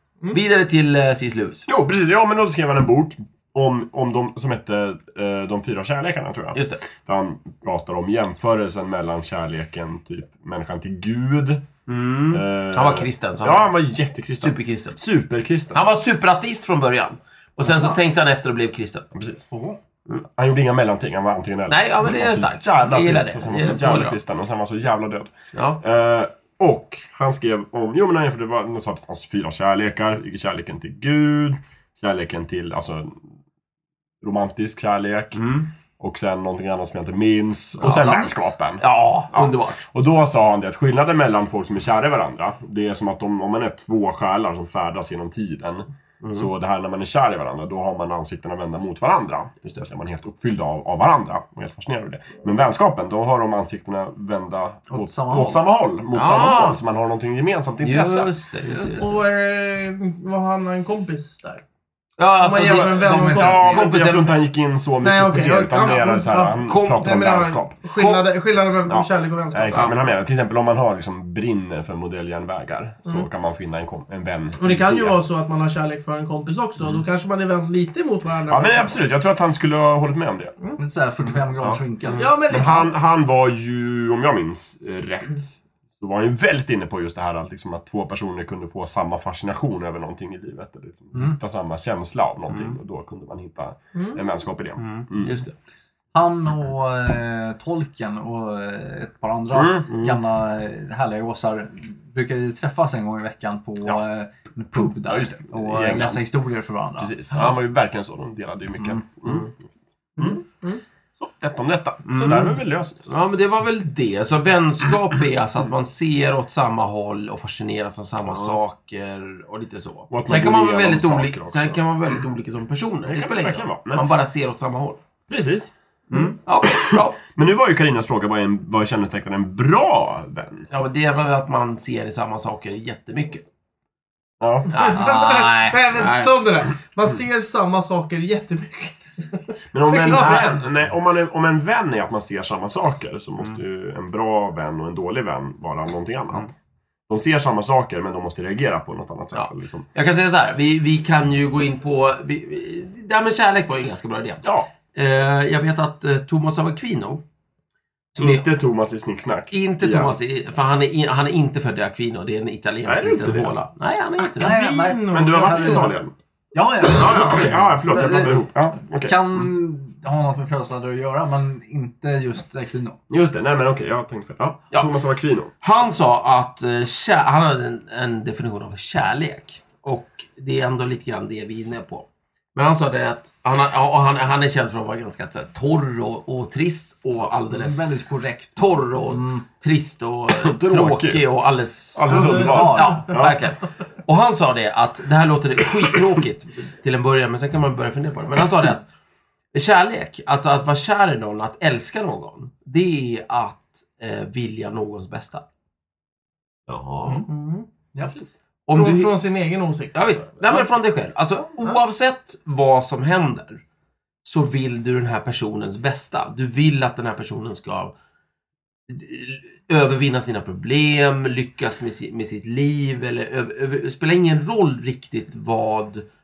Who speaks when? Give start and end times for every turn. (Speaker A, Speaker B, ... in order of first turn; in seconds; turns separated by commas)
Speaker A: 0.3-1.7, Speaker B: 1.7-11.7, Speaker A: 6.5-6.8, Speaker A: 11.9-13.7, Speaker B: 12.3-15.8, Speaker A: 14.4-15.0, Speaker A: 15.7-19.1, Speaker C: 17.6-18.0, Speaker B: 19.1-19.5, Speaker C: 19.5-19.8, Speaker B: 20.4-33.2, Speaker A: 21.7-24.2, Speaker A: 25.5-25.8, Speaker B: 34.2-35.4, Speaker A: 35.4-35.7, Speaker B: 36.0-58.3, Speaker C: 37.8-38.3, Speaker A: 37.8-39.9, Speaker A: 46.2-46.5, Speaker C: 54.9-55.6, Speaker A: 56.1-56.8, Speaker A: 57.8-59.2, Speaker C: 58.6-59.0, Speaker D: 59.0-61.6, Speaker A: 62.2-64.4, Speaker D: 62.4-63.8, Speaker B: 62.6-68.2, Speaker C: 62.9-63.9, Speaker D: 65.0-69.9, Speaker A: 66.7-67.1, Speaker B: 68.9-75.2, Speaker D: 74.6-79.0, Speaker B: 78.5-80.5, Speaker C: 80.8-82.3, Speaker B: 81.3-81.8, Speaker D: 82.2-83.0, Speaker B: 82.5-95.4, Speaker A: 92.5-92.8, Speaker D: 94.0-94.2, Speaker A: 94.8-95.5, Speaker C: 96.1-107.1, Speaker B: 99.5-100.1, Speaker B: 105.0-106.2, Speaker B: 107.0-109.6, Speaker D: 110.2-110.8, Speaker B: 111.2-113.5, Speaker A: 112.1-125.0, Speaker B: 118.2-118.6, Speaker B: 120.1-122.2, Speaker B: 123.1-124.1, Speaker B: 125.3-125.7, Speaker A: 126.1-127.2, Speaker B: 126.9-130.7, Speaker A: 130.7-133.4, Speaker B: 134.4-134.7, Speaker A: 134.7-136.4, Speaker D: 134.7-140.6, Speaker C: 134.8-135.8, Speaker B: 139.7-146.6, Speaker B: 147.1-149.9, Speaker A: 149.3-157.2, Speaker B: 154.4-154.7, Speaker A: 158.1-158.5, Speaker B: 158.2-160.2, Speaker A: 159.5-164.6, Speaker B: 162.9-163.5, Speaker C: 164.4-166.0, Speaker D: 164.4-165.9, Speaker B: 165.1-166.1, Speaker C: 166.5-173.0, Speaker B: 166.9-169.5, Speaker B: 173.1-175.5, Speaker A: 174.7-175.0, Speaker A: 175.6-188.0, Speaker C: 187.5-189.4, Speaker A: 188.6-198.9, Speaker B: 190.3-191.2, Speaker B: 191.9-193.4, Speaker D: 192.1-193.0, Speaker C: 192.3-193.1, Speaker A: 199.5-205.4, Speaker B: 206.7-207.2, Speaker D: 207.1-207.7, Speaker A: 208.7-209.1, Speaker D: 208.7-210.7, Speaker A: 209.9-213.6, Speaker A: 214.2-217.9, Speaker A: 218.9-226.1